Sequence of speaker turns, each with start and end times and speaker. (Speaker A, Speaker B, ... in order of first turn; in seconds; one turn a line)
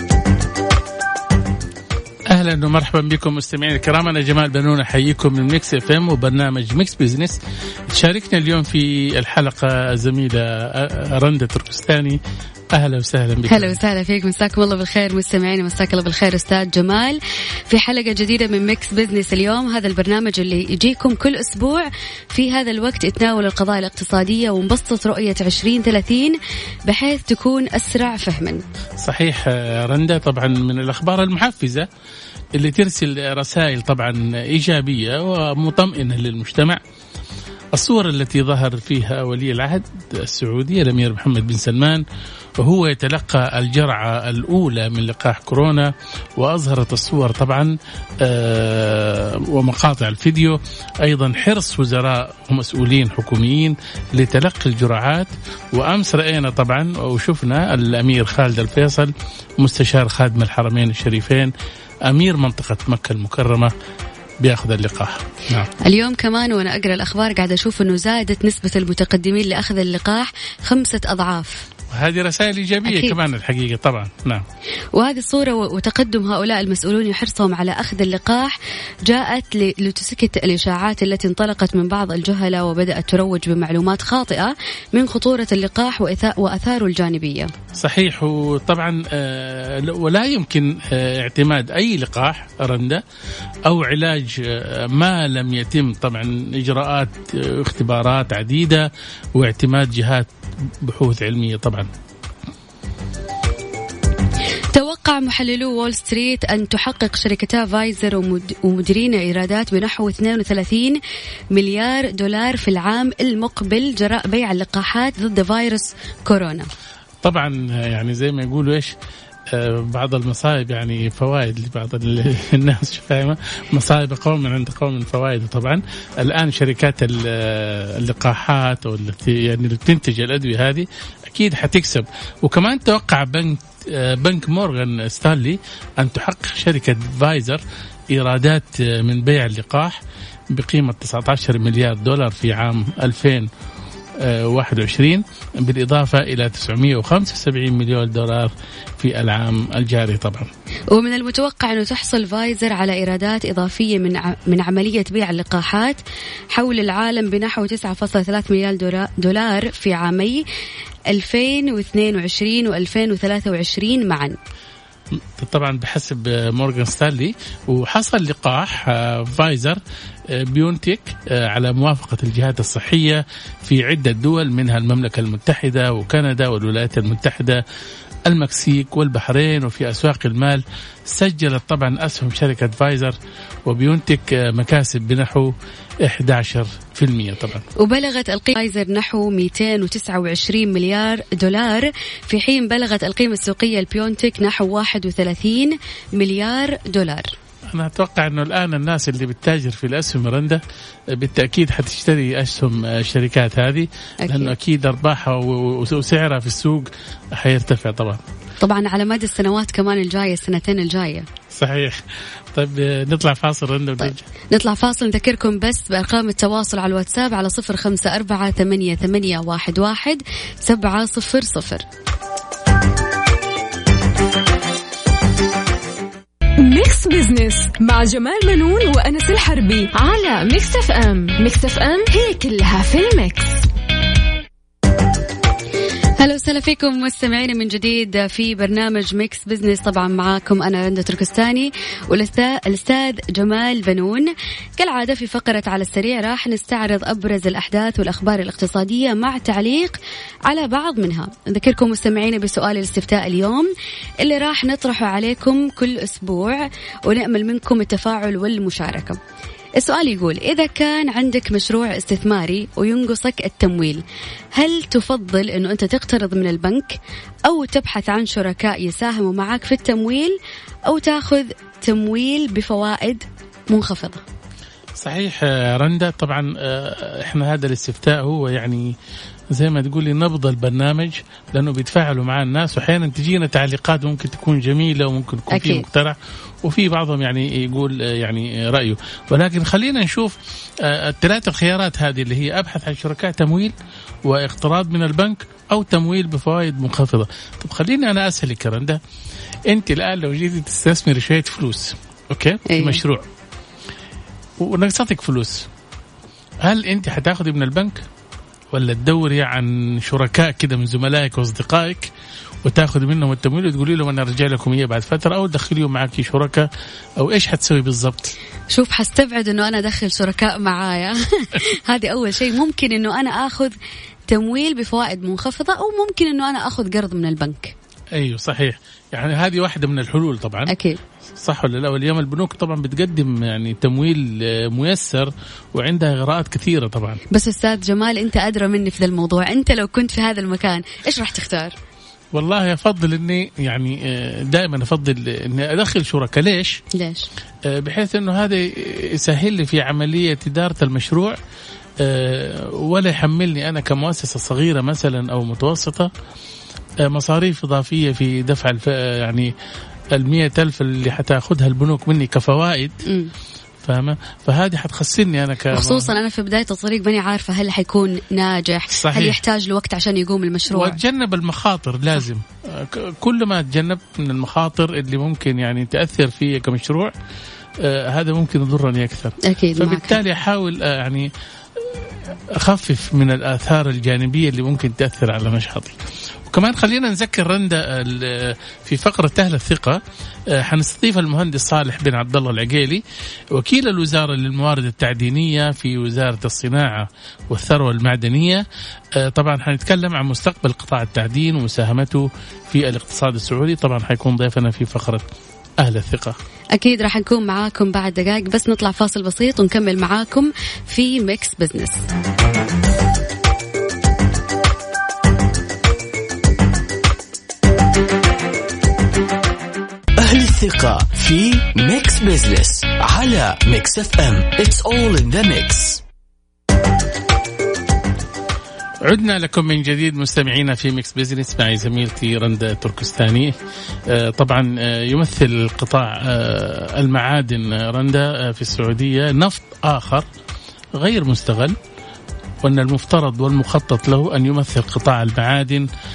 Speaker A: 2.3-7.4
Speaker A: 7.9-12.2
Speaker A: 12.7-13.8
Speaker B: 13.5-28.6
Speaker A: 29.0-31.9
Speaker A: 32.5-36.8
Speaker A: 37.7-42.0
Speaker A: 42.6-61.5
Speaker A: 62.1-63.7
Speaker A: 64.4-65.7
Speaker B: 65.8-71.7
Speaker A: 71.9-74.4
Speaker B: 72.8-73.2
Speaker B: 74.9-87.5
Speaker A: 87.7-93.0
Speaker A: 93.7-100.3
Speaker A: 100.8-101.9
Speaker B: 104.7-111.0
Speaker B: 111.5-116.7
Speaker A: 117.2-118.9
Speaker A: 119.5-140.0
Speaker A: 140.5-143.5
Speaker A: 144.2-150.5
Speaker B: 150.9-156.0
Speaker B: 156.5-160.4
Speaker B: 161.1-164.3
Speaker A: 165.2-177.6
Speaker A: 178.3-185.5
Speaker A: 186.0-187.6
Speaker B: 187.8-197.3
Speaker A: 197.7-200.6
Speaker A: 201.1-208.2
Speaker B: 204.2-204.5
Speaker B: 208.6-211.2
Speaker A: 211.5-212.0
Speaker A: 212.5-214.2
Speaker B: 214.0-221.8
Speaker C: 226.6-233.6
Speaker B: 236.2-253.7
Speaker B: 254.2-259.2
Speaker B: 259.8-266.9
Speaker B: 267.4-274.2
Speaker A: 274.9-278.9
Speaker A: 279.5-293.7
Speaker B: 285.5-285.8
Speaker A: 294.2-299.0
Speaker A: 299.7-303.2
Speaker B: 302.6-303.0
Speaker A: 304.6-305.7
Speaker A: 306.6-308.0
Speaker A: 308.7-312.1
Speaker A: 312.6-318.3
Speaker B: 318.7-323.7
Speaker B: 324.3-327.7
Speaker A: 328.1-330.7
Speaker B: 330.7-331.0
Speaker A: 331.4-337.2
Speaker B: 337.3-341.7
Speaker A: 342.3-346.8
Speaker B: 346.9-347.3
Speaker A: 347.6-351.4
Speaker A: 352.0-356.1
Speaker A: 357.0-359.5
Speaker A: 360.1-362.9
Speaker B: 363.1-363.3
Speaker A: 363.8-366.1
Speaker B: 365.7-371.0
Speaker A: 368.9-369.4
Speaker A: 370.7-377.1
Speaker A: 377.8-385.9
Speaker B: 379.4-380.2
Speaker A: 386.5-390.0
Speaker A: 390.5-393.0
Speaker A: 393.5-398.6
Speaker A: 399.2-405.2
Speaker A: 405.8-406.4
Speaker B: 406.7-412.0
Speaker D: 420.2-426.0
Speaker A: 429.0-433.5
Speaker A: 434.1-440.2
Speaker A: 440.9-441.8
Speaker A: 442.6-445.9